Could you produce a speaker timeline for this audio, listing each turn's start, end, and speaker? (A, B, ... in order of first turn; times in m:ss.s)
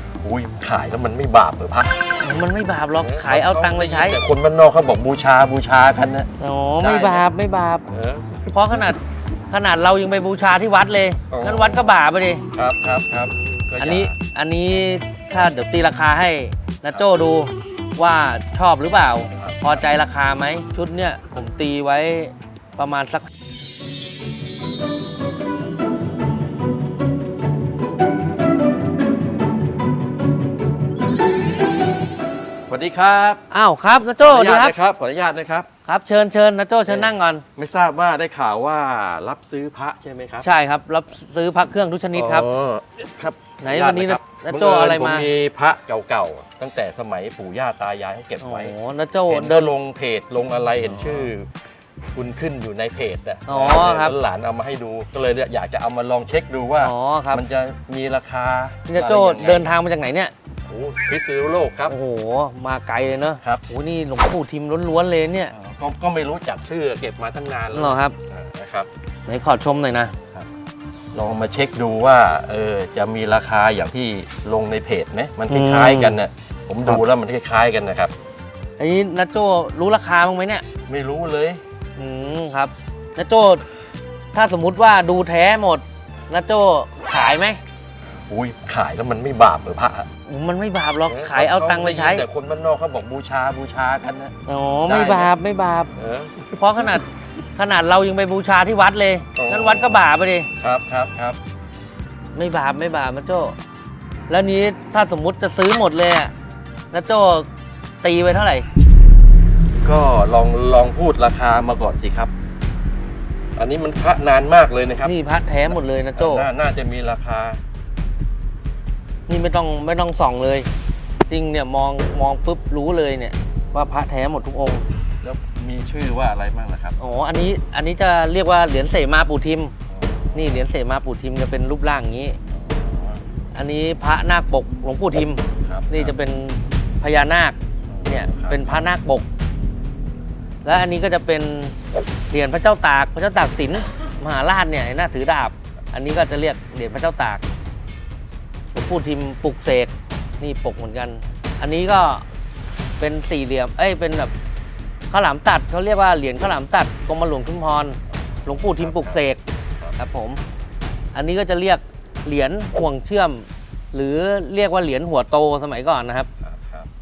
0:00.2-0:02.0 A
0:02.2-0:04.2 B
0:03.0-0:07.2 A
0:06.4-0:07.9 B
0:07.9-0:08.9 A
0:08.5-0:09.0 B
0:09.5-0:12.4 B
0:11.3-0:11.9 A
0:12.5-0:14.2 A
0:13.8-0:23.3 B
0:19.3-0:19.9 A
0:32.7-0:33.4 A
0:33.5-0:34.8 B
0:34.2-0:35.7 A
0:35.9-0:37.4 B
0:36.9-0:40.5 A
0:40.4-0:42.5 B
0:42.1-0:48.8 A
0:43.6-0:45.3 B
0:48.4-0:49.7 B
0:49.3-0:51.5 A
0:50.9-0:51.3 B
0:52.1-0:59.7 A
0:53.5-0:54.2 B
0:56.8-0:57.4 B
0:58.9-1:00.3 B
1:00.7-1:02.0 A
1:01.9-1:05.5 B
1:05.5-1:08.9 A
1:07.7-1:08.2 B
1:09.3-1:10.1 B
1:11.1-1:18.1 A
1:15.5-1:16.2 B
1:18.8-1:20.6 B
1:20.9-1:21.6 A
1:22.0-1:23.6 B
1:24.3-1:27.6 B
1:28.3-1:30.1 A
1:30.3-1:32.3 B
1:31.1-1:34.4 A
1:34.5-1:35.9 B
1:34.9-1:35.3 A
1:36.0-1:37.0 A
1:36.6-1:40.5 B
1:39.4-1:40.0 A
1:40.6-1:41.4 A
1:42.4-1:43.6 B
1:44.3-1:46.3 B
1:46.9-1:47.5 B
1:48.0-1:48.7 B
1:49.8-1:52.3 A
1:53.6-1:55.2 A
1:55.0-1:56.5 B
1:55.7-1:57.6 A
1:59.3-2:00.7 B
2:01.3-2:04.8 B
2:05.2-2:07.0 A
2:07.0-2:09.8 B
2:09.9-2:10.7 A
2:10.3-2:12.4 B
2:12.5-2:13.2 A
2:13.5-2:19.3 B
2:15.6-2:16.2 A
2:17.9-2:18.9 A
2:20.6-2:21.8 B
2:22.3-2:27.4 B
2:28.7-2:32.2 B
2:33.0-2:34.3 B
2:35.1-2:39.4 B
2:38.1-2:39.2 A
2:40.0-2:40.4 B
2:41.1-2:46.3 B
2:46.4-2:46.9 A